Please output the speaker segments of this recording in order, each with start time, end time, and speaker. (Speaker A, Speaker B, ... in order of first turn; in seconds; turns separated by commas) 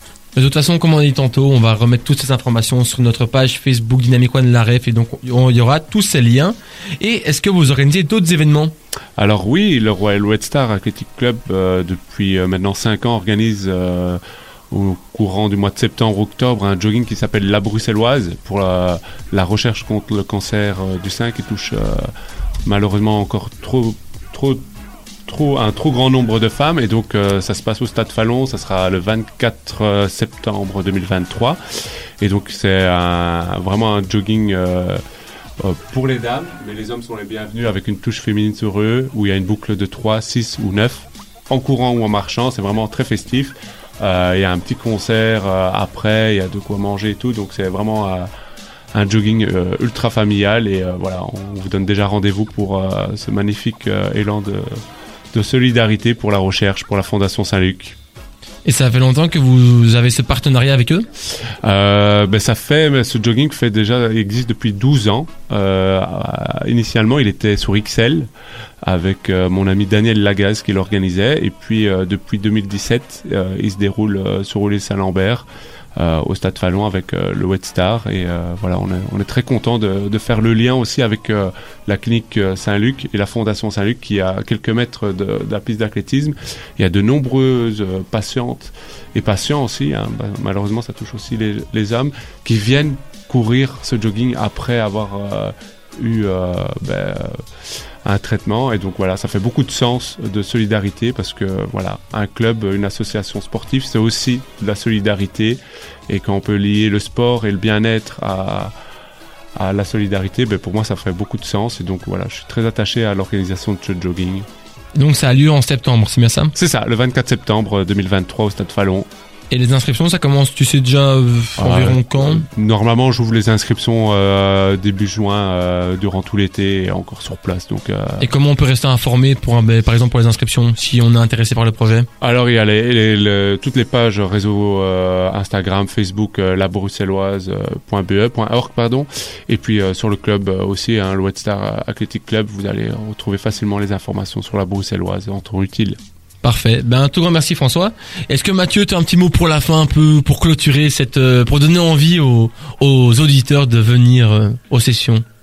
Speaker A: 0.4-8.7, Speaker B: 9.2-22.1, Speaker B: 22.6-24.6, Speaker B: 25.3-31.6, Speaker B: 32.2-35.0, Speaker B: 35.6-48.3, Speaker B: 48.9-54.8, Speaker B: 55.3-58.0, Speaker A: 58.6-61.1, Speaker B: 61.6-68.3, Speaker B: 68.8-97.4, Speaker B: 98.0-108.7, Speaker B: 109.5-114.5, Speaker A: 115.0-116.5, Speaker B: 116.5-119.1, Speaker A: 119.5-122.5, Speaker B: 121.6-128.3, Speaker A: 128.2-132.1, Speaker B: 132.2-146.0, Speaker A: 146.4-155.2